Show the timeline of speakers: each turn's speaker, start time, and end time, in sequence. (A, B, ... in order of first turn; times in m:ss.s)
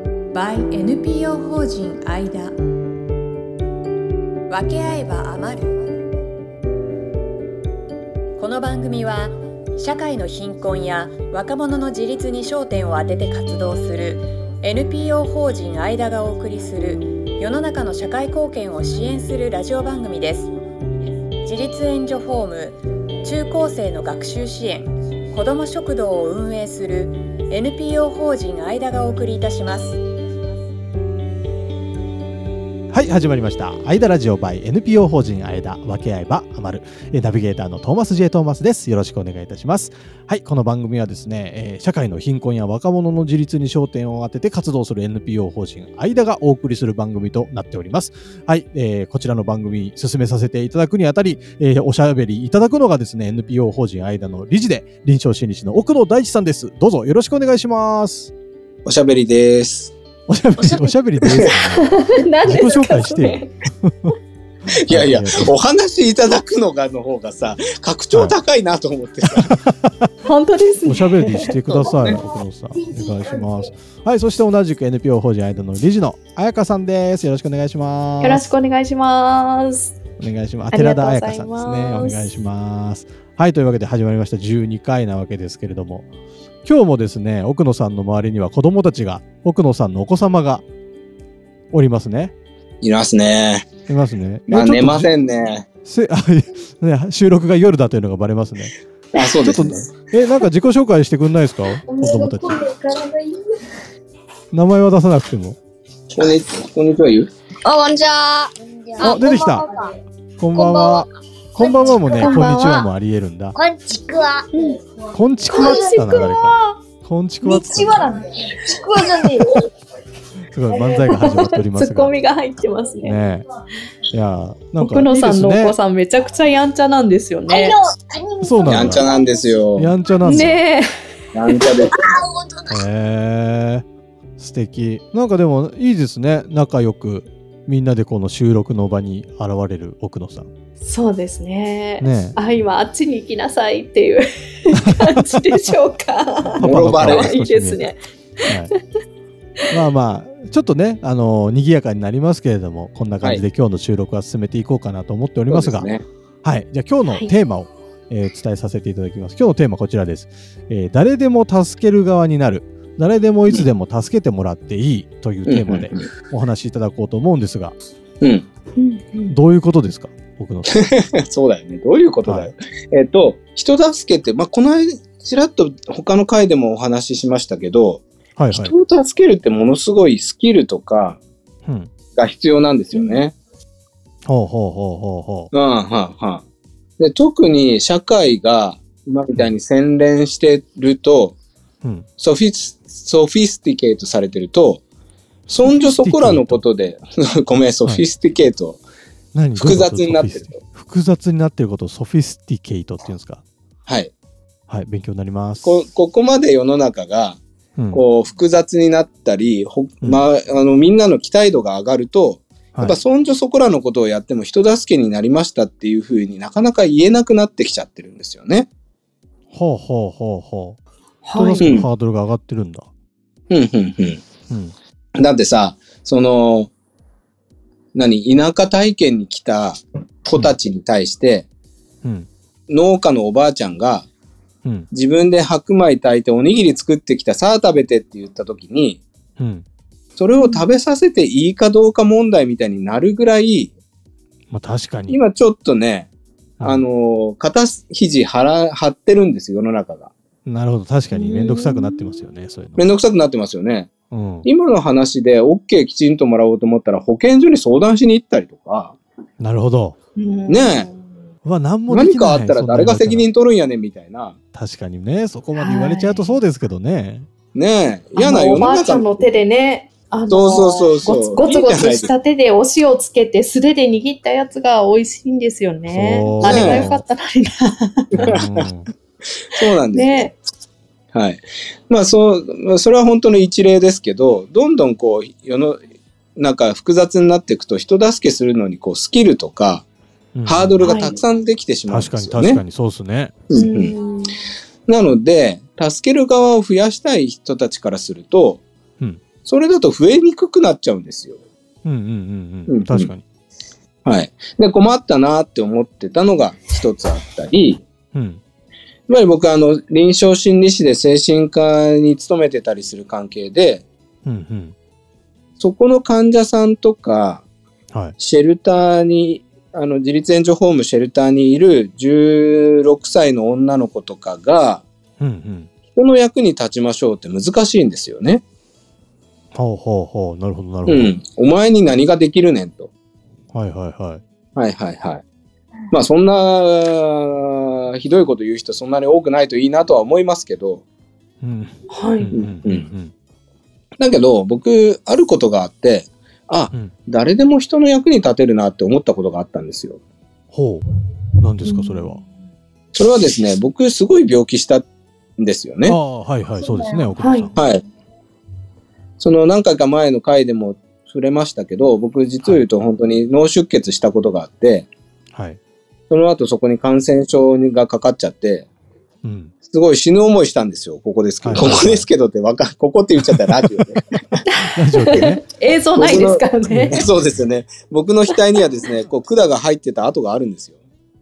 0:00.3-0:02.6 A
0:04.5-0:05.8 A
0:08.4-0:20.5 A
0:21.4-0:30.0 A
0:32.9-0:58.3 B
0:58.8-0:59.9 C
1:00.3-1:01.9 B
1:00.6-1:03.6 D
1:01.2-1:01.5 C
1:02.4-1:04.1 B
1:04.7-1:09.6 C
1:04.9-1:05.5 B
1:09.4-1:10.1 B
1:10.2-1:12.1 D
1:10.8-1:18.5 B
1:11.7-1:12.0 C
1:18.2-1:20.0 D
1:20.2-1:26.1 B
1:20.7-1:22.3 D
1:26.6-1:30.6 B
1:31.7-1:32.3 B
1:32.8-1:33.7 C
1:33.9-1:35.1 B
1:34.5-1:35.6 C
1:35.8-1:42.6 B
1:39.1-1:39.9 C
1:41.9-1:43.4 E
1:44.5-1:45.6 B
1:46.1-1:47.3 C
1:47.6-1:49.9 E
1:49.0-1:49.7 B
1:50.4-1:53.5 B
1:50.6-1:51.0 E
1:51.6-1:52.8 E
1:52.1-1:52.8 D
1:53.6-1:54.4 E
1:54.5-1:54.8 D
1:55.1-1:58.1 B
1:55.5-1:56.8 D
1:55.6-1:56.3 E
1:57.4-1:59.6 E
2:00.5-2:02.1 B
2:00.7-2:03.2 D
2:03.0-2:03.4 B
2:04.1-2:05.8 B
2:04.8-2:07.8 D
2:07.5-2:09.0 E
2:08.4-2:09.2 B
2:08.6-2:09.9 C
2:09.8-2:10.6 B
2:10.2-2:10.9 D
2:11.3-2:12.0 C
2:11.9-2:12.7 E
2:12.7-2:13.8 B
2:14.4-2:20.5 B
2:20.8-2:28.8 D
2:22.0-2:22.4 B
2:24.8-2:25.2 B
2:26.6-2:27.3 C
2:26.6-2:27.9 B
2:29.7-2:35.9 B
2:35.5-2:36.0 C
2:36.4-2:47.7 B
2:45.4-2:46.1 C
2:48.2-2:48.4 C
2:48.8-2:49.3 D
2:49.2-2:50.8 B
2:50.7-3:01.2 C
2:58.4-2:58.7 B
3:01.6-3:01.9 B
3:02.1-3:03.3 C
3:02.9-3:03.2 D
3:04.2-3:05.5 B
3:05.5-3:06.4 C
3:07.0-3:11.4 C
3:12.2-3:14.8 C
3:15.5-3:18.8 C
3:15.6-3:16.6 B
3:19.3-3:23.4 B
3:19.6-3:20.6 C
3:23.9-3:24.1 C
3:24.7-3:25.8 B
3:25.6-3:27.4 C
3:27.9-3:38.7 C
3:39.5-3:40.8 B
3:41.2-3:41.8 D
3:41.3-3:42.9 B
3:41.6-3:41.9 C
3:43.5-3:44.2 C
3:44.5-3:44.7 B
3:45.2-3:46.7 C
3:47.9-3:51.5 C
3:52.0-3:52.3 B
3:52.7-3:54.1 C
3:54.9-3:59.0 C
3:59.4-3:59.6 B
4:00.2-4:03.7 C
4:00.4-4:00.6 D
4:04.5-4:05.2 B
4:05.1-4:06.1 C
4:06.6-4:10.1 C
4:10.4-4:12.8 B
4:11.1-4:12.2 D
4:12.8-4:13.9 C
4:14.1-4:14.5 B
4:14.4-4:19.0 C
4:19.4-4:20.0 B
4:20.2-4:21.1 D
4:20.5-4:20.9 C
4:21.4-4:23.2 B
4:21.9-4:24.4 C
4:24.5-4:27.3 B
4:25.6-4:26.4 D
4:27.5-4:29.1 C
4:28.2-4:38.4 D
4:30.3-4:32.1 C
4:35.9-4:37.0 B
4:36.4-4:36.9 C
4:38.2-4:38.7 C
4:38.2-4:38.9 B
4:39.5-4:40.3 C
4:39.6-4:40.4 D
4:41.1-4:45.8 C
4:46.4-4:49.8 C
4:50.3-4:50.8 B
4:50.4-4:52.6 C
4:50.8-4:51.2 D
4:51.9-4:53.4 B
4:53.5-4:53.9 C
4:53.5-4:54.3 D
4:54.9-4:58.6 C
4:59.4-5:01.4 C
5:01.8-5:03.2 B
5:02.7-5:03.1 C
5:04.0-5:07.8 C
5:08.1-5:08.4 B
5:09.1-5:13.8 C
5:14.2-5:14.7 B
5:15.6-5:17.4 C
5:18.2-5:24.8 C
5:25.2-5:25.7 B
5:25.9-5:28.4 C
5:29.5-5:31.1 B
5:30.9-5:32.9 C
5:33.5-5:34.2 B
5:34.6-5:35.2 C
5:35.9-5:40.8 C
5:41.4-5:43.1 B
5:41.9-5:42.3 D
5:42.3-5:42.8 C
5:44.0-5:50.0 C
5:50.5-5:50.8 B
5:51.4-5:52.2 B
5:51.6-5:52.2 D
5:52.9-5:54.8 C
5:55.4-5:56.0 C
5:55.8-5:57.6 B
5:57.2-5:57.5 D
5:57.6-5:57.8 C
5:59.2-6:04.9 C
6:05.3-6:05.6 B
6:06.1-6:08.7 C
6:09.2-6:09.5 B
6:09.7-6:14.3 C
6:11.4-6:12.1 B
6:14.4-6:17.1 D
6:14.7-6:15.4 B
6:16.0-6:20.8 C
6:16.7-6:17.0 B